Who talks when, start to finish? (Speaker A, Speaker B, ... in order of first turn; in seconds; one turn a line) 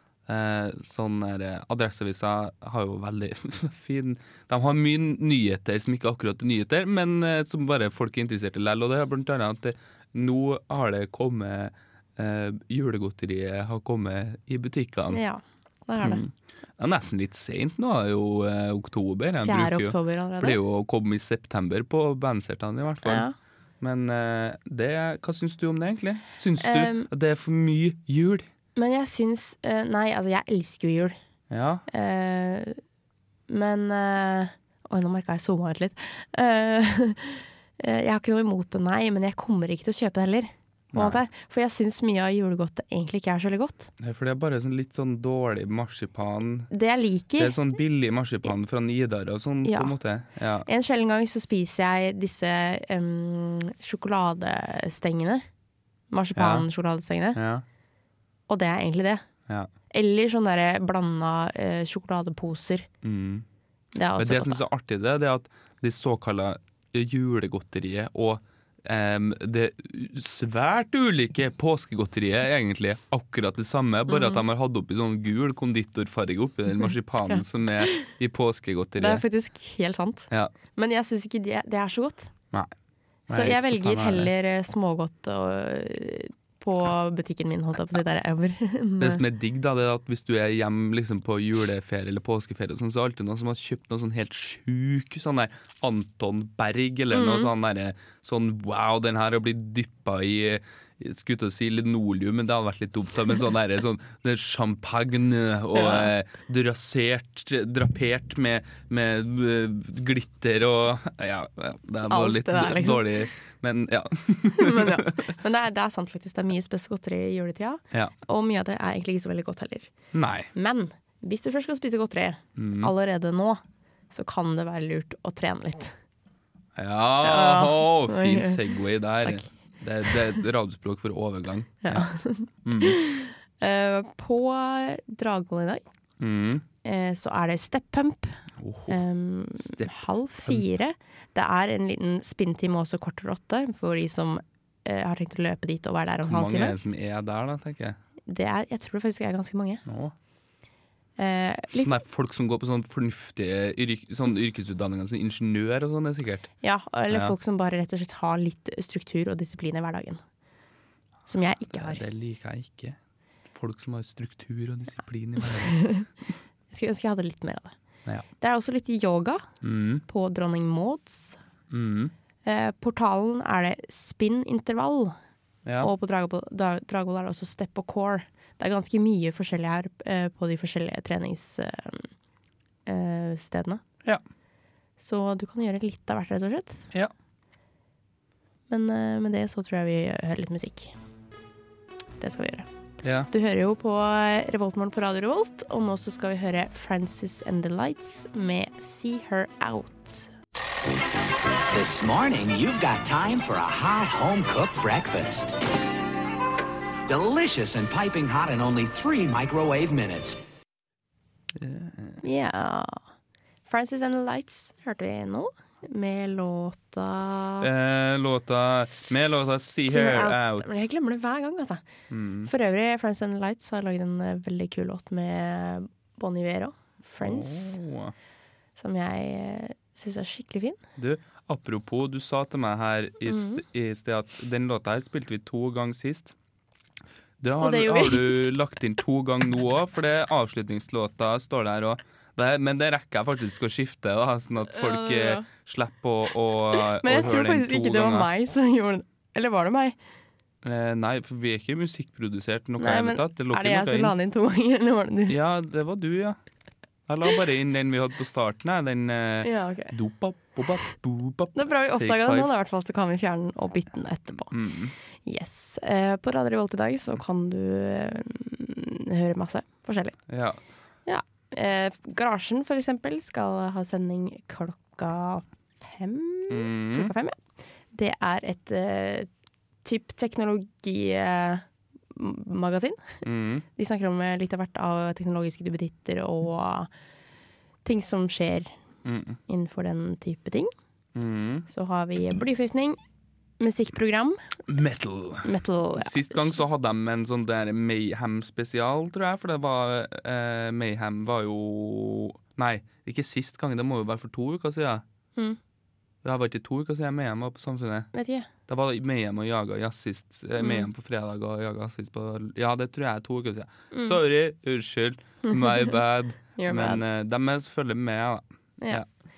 Speaker A: 0.2-15.2
Speaker B: 15.1-16.2
Speaker A: 16.0-23.3
Speaker B: 19.4-20.6
Speaker B: 23.0-23.3
Speaker A: 23.8-28.5
Speaker B: 26.6-27.1
Speaker B: 28.8-31.2
Speaker A: 31.5-31.8
Speaker B: 31.9-32.8
Speaker B: 33.5-43.9
Speaker A: 40.9-41.2
Speaker A: 44.0-46.7
Speaker B: 46.7-47.5
Speaker A: 47.4-50.7
Speaker B: 49.6-49.9
Speaker B: 50.6-55.5
Speaker B: 56.1-57.4
Speaker A: 56.4-56.7
Speaker A: 57.3-57.6
Speaker B: 58.5-59.2
Speaker B: 59.9-62.9
Speaker A: 63.0-63.5
Speaker B: 63.9-64.6
Speaker A: 64.2-79.2
Speaker B: 74.1-74.4
Speaker B: 77.3-78.1
Speaker B: 79.0-82.3
Speaker A: 83.3-84.3
Speaker B: 83.3-89.2
Speaker A: 89.0-115.3
Speaker B: 97.1-97.5
Speaker B: 105.7-106.1
Speaker B: 112.1-113.1
Speaker B: 114.6-119.9
Speaker A: 120.1-120.5
Speaker B: 120.5-126.0
Speaker A: 122.5-122.9
Speaker A: 126.8-132.1
Speaker B: 127.2-128.6
Speaker B: 129.2-129.5
Speaker B: 131.8-135.8
Speaker A: 132.6-132.9
Speaker A: 136.2-136.6
Speaker B: 136.8-146.8
Speaker A: 138.6-139.0
Speaker A: 139.6-140.6
Speaker A: 146.2-148.0
Speaker B: 148.3-149.8
Speaker A: 149.8-150.1
Speaker B: 151.2-152.0
Speaker A: 151.7-156.5
Speaker B: 156.6-160.2
Speaker A: 157.1-157.3
Speaker B: 161.3-162.0
Speaker A: 161.7-163.0
Speaker A: 163.5-166.0
Speaker B: 165.6-166.1
Speaker B: 166.7-167.7
Speaker B: 168.4-169.5
Speaker A: 169.6-170.0
Speaker B: 170.1-171.4
Speaker A: 171.7-172.1
Speaker B: 172.4-175.2
Speaker A: 175.6-175.9
Speaker B: 175.8-182.1
Speaker B: 182.9-183.8
Speaker B: 185.0-186.8
Speaker B: 188.7-190.9
Speaker B: 192.2-192.7
Speaker A: 193.0-193.3
Speaker B: 193.3-200.3
Speaker C: 201.7-205.5
Speaker C: 207.1-210.3
Speaker A: 211.6-212.2
Speaker B: 212.2-213.0
Speaker B: 213.7-217.7
Speaker A: 217.6-220.8
Speaker B: 219.8-221.8
Speaker A: 222.1-222.5
Speaker B: 222.4-227.8
Speaker A: 227.2-228.1
Speaker B: 228.8-230.8
Speaker A: 231.0-236.3
Speaker B: 233.3-233.6
Speaker A: 237.4-248.3
Speaker B: 237.6-238.4
Speaker B: 244.7-245.4
Speaker B: 246.7-249.9
Speaker A: 250.6-254.1
Speaker B: 252.8-255.4
Speaker A: 255.3-256.4
Speaker A: 257.1-262.5
Speaker B: 259.4-259.9
Speaker B: 261.5-264.6
Speaker A: 264.5-264.9
Speaker B: 265.2-270.2
Speaker A: 270.3-270.6
Speaker B: 271.1-279.3
Speaker A: 276.5-277.1
Speaker B: 279.8-283.2
Speaker A: 283.2-283.6
Speaker B: 283.8-286.9
Speaker B: 287.8-288.7
Speaker A: 289.0-289.4
Speaker B: 289.5-290.7
Speaker A: 291.1-291.6
Speaker B: 291.7-293.0
Speaker B: 293.6-294.4
Speaker A: 294.7-305.0
Speaker B: 295.4-296.4
Speaker A: 306.2-308.1
Speaker B: 308.1-308.5
Speaker A: 308.7-319.1
Speaker B: 310.6-310.9
Speaker B: 313.9-314.2
Speaker B: 315.4-316.0
Speaker B: 316.6-317.0